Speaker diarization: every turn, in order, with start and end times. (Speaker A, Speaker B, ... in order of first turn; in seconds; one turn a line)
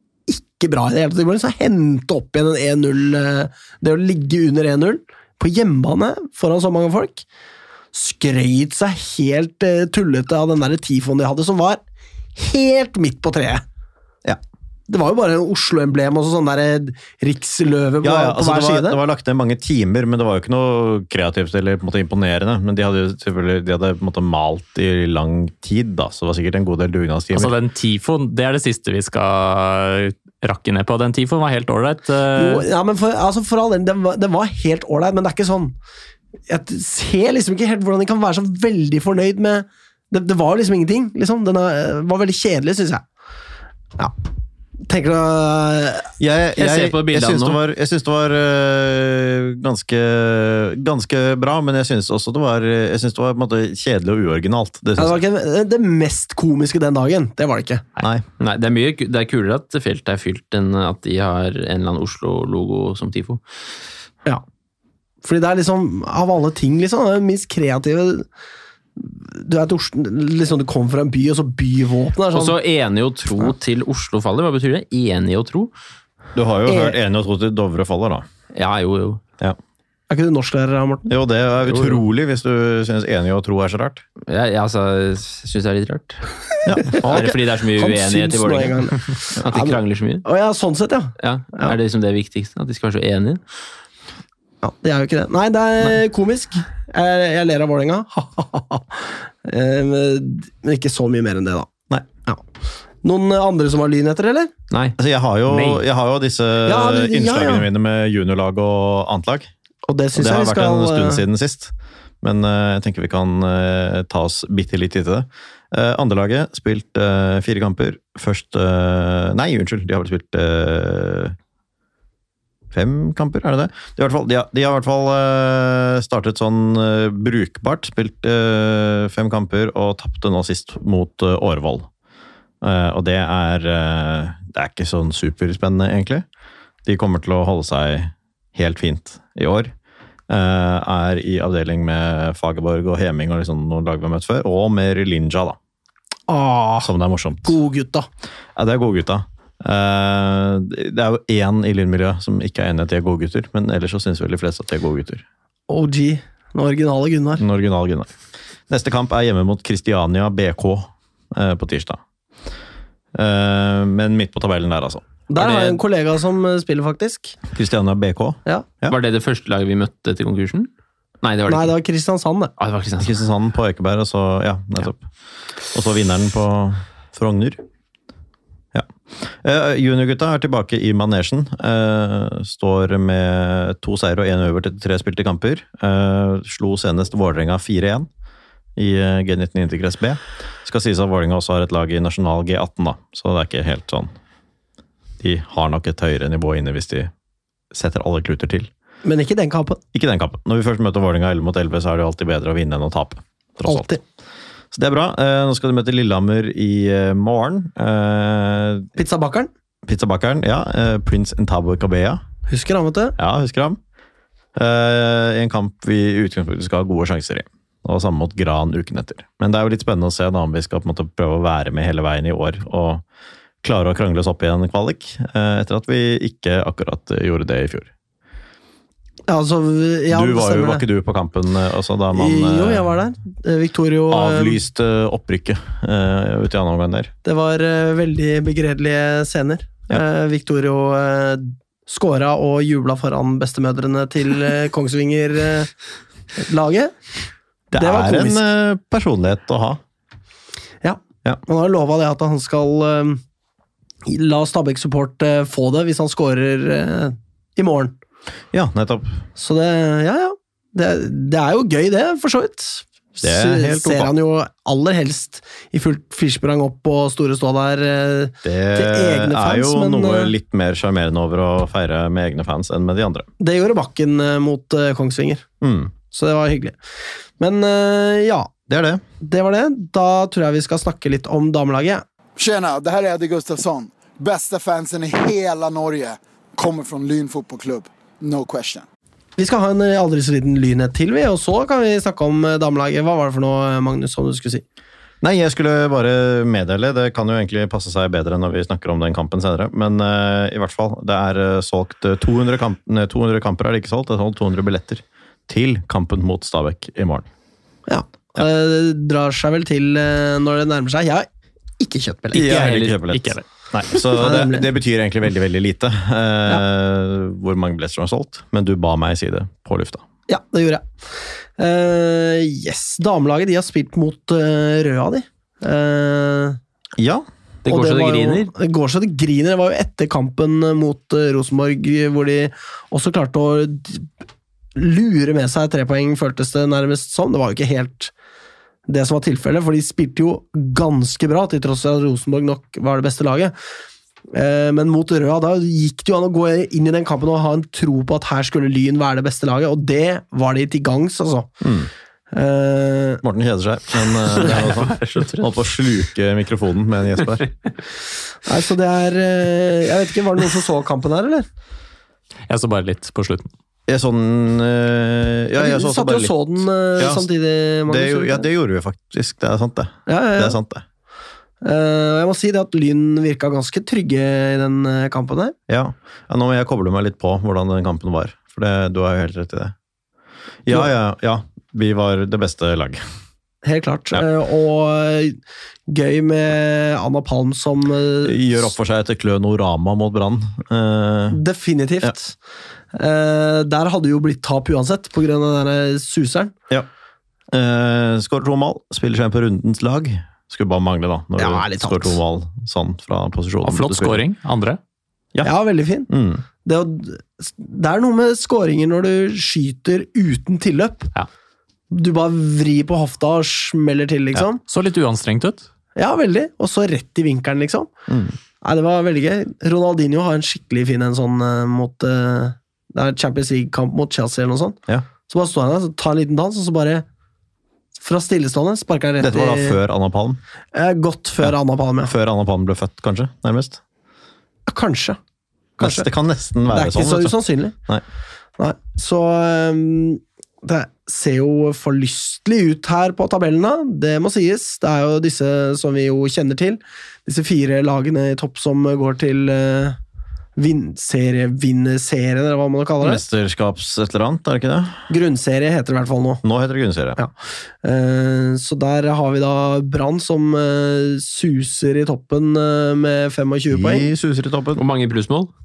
Speaker A: 0.3-7.2
Speaker A: 7.9-11.8
Speaker A: 12.3-13.6
Speaker A: 14.9-19.0
Speaker B: 18.0-27.6
Speaker C: 27.3-32.6
Speaker A: 32.4-35.7
Speaker A: 36.5-43.0
Speaker A: 44.9-46.1
Speaker B: 46.2-55.2
Speaker D: 46.5-47.6
Speaker A: 55.0-57.8
Speaker B: 58.0-58.2
Speaker D: 58.4-63.4
Speaker A: 65.2-68.3
Speaker A: 69.0-72.5
Speaker D: 72.3-75.7
Speaker B: 76.3-78.2
Speaker A: 76.7-77.0
Speaker D: 78.5-79.2
Speaker A: 80.1-81.1
Speaker B: 81.1-84.0
Speaker D: 81.6-82.0
Speaker D: 84.3-86.2
Speaker B: 86.6-87.3
Speaker A: 86.8-91.7
Speaker D: 87.0-90.2
Speaker D: 91.2-93.4
Speaker A: 94.6-101.7
Speaker A: 103.0-104.5
Speaker D: 104.7-105.0
Speaker B: 105.0-109.5
Speaker D: 105.5-105.8
Speaker A: 106.7-107.7
Speaker A: 109.8-111.2
Speaker B: 110.1-121.3
Speaker B: 122.7-131.9
Speaker B: 132.6-136.2
Speaker B: 136.8-139.7
Speaker B: 140.3-145.6
Speaker A: 146.3-146.9
Speaker B: 146.8-147.6
Speaker A: 147.4-148.1
Speaker B: 148.6-155.2
Speaker A: 155.7-157.4
Speaker B: 157.4-158.1
Speaker B: 158.7-162.0
Speaker B: 163.1-165.1
Speaker A: 165.3-167.4
Speaker D: 165.3-165.8
Speaker B: 167.5-169.0
Speaker D: 168.9-170.7
Speaker D: 171.2-171.7
Speaker A: 171.5-172.5
Speaker D: 172.6-173.2
Speaker B: 173.0-175.0
Speaker B: 175.7-177.6
Speaker B: 178.7-188.1
Speaker B: 188.8-194.1
Speaker B: 195.2-197.1
Speaker B: 197.7-198.7
Speaker A: 199.0-199.8
Speaker B: 199.9-203.9
Speaker A: 203.7-204.0
Speaker B: 204.7-208.9
Speaker A: 208.9-209.5
Speaker B: 209.8-212.2
Speaker A: 212.5-213.2
Speaker B: 213.2-213.8
Speaker B: 214.5-223.0
Speaker B: 223.6-227.9
Speaker A: 229.3-230.8
Speaker B: 230.1-232.9
Speaker A: 232.1-234.6
Speaker B: 234.1-237.1
Speaker A: 237.2-245.7
Speaker A: 246.4-246.9
Speaker B: 247.7-249.8
Speaker A: 247.8-248.4
Speaker A: 250.8-253.2
Speaker A: 254.1-257.9
Speaker B: 258.5-259.2
Speaker A: 259.4-270.3
Speaker B: 263.2-264.1
Speaker B: 268.4-273.3
Speaker A: 273.4-275.4
Speaker B: 275.6-275.9
Speaker A: 276.1-276.8
Speaker A: 277.4-278.5
Speaker B: 278.7-279.0
Speaker A: 279.2-282.0
Speaker E: 282.4-288.9
Speaker A: 289.4-294.6
Speaker B: 295.2-307.3
Speaker A: 307.9-311.3
Speaker A: 311.8-312.4
Speaker B: 312.3-320.0
Speaker D: 312.4-313.0
Speaker C: 313.1-313.4
Speaker A: 314.1-314.6
Speaker A: 320.3-320.9
Speaker A: 321.6-326.6
Speaker B: 327.0-327.2
Speaker D: 327.6-328.5
Speaker A: 327.7-334.1
Speaker A: 334.8-338.1
Speaker A: 338.9-343.5
Speaker A: 344.3-351.5
Speaker B: 351.6-351.9
Speaker A: 352.3-353.2
Speaker B: 353.2-357.5
Speaker D: 354.2-355.6
Speaker A: 358.4-361.4
Speaker C: 362.5-363.5
Speaker B: 363.9-367.3
Speaker A: 365.6-368.5
Speaker B: 367.9-370.8
Speaker A: 370.1-370.6
Speaker A: 371.6-375.5
Speaker B: 375.7-379.7
Speaker B: 380.6-383.0
Speaker A: 383.6-388.7
Speaker B: 388.2-391.4
Speaker A: 391.3-392.4
Speaker A: 392.9-396.5
Speaker B: 397.5-404.2
Speaker A: 401.4-402.2
Speaker C: 403.6-404.8
Speaker A: 405.4-406.1
Speaker B: 406.1-406.4
Speaker A: 406.6-411.1
Speaker A: 411.9-414.6
Speaker C: 414.7-415.7
Speaker A: 415.9-417.9
Speaker B: 418.1-418.3
Speaker A: 418.6-427.0
Speaker A: 428.0-429.8
Speaker B: 429.2-430.4
Speaker A: 430.7-432.1
Speaker B: 431.4-433.8
Speaker A: 434.7-435.2
Speaker B: 435.8-438.0
Speaker A: 435.8-436.1
Speaker A: 436.7-437.7
Speaker A: 438.6-450.0
Speaker A: 450.6-453.2
Speaker B: 453.0-455.1
Speaker A: 455.1-456.4
Speaker B: 456.4-457.2
Speaker A: 457.8-464.1
Speaker B: 463.7-464.8
Speaker D: 464.8-465.5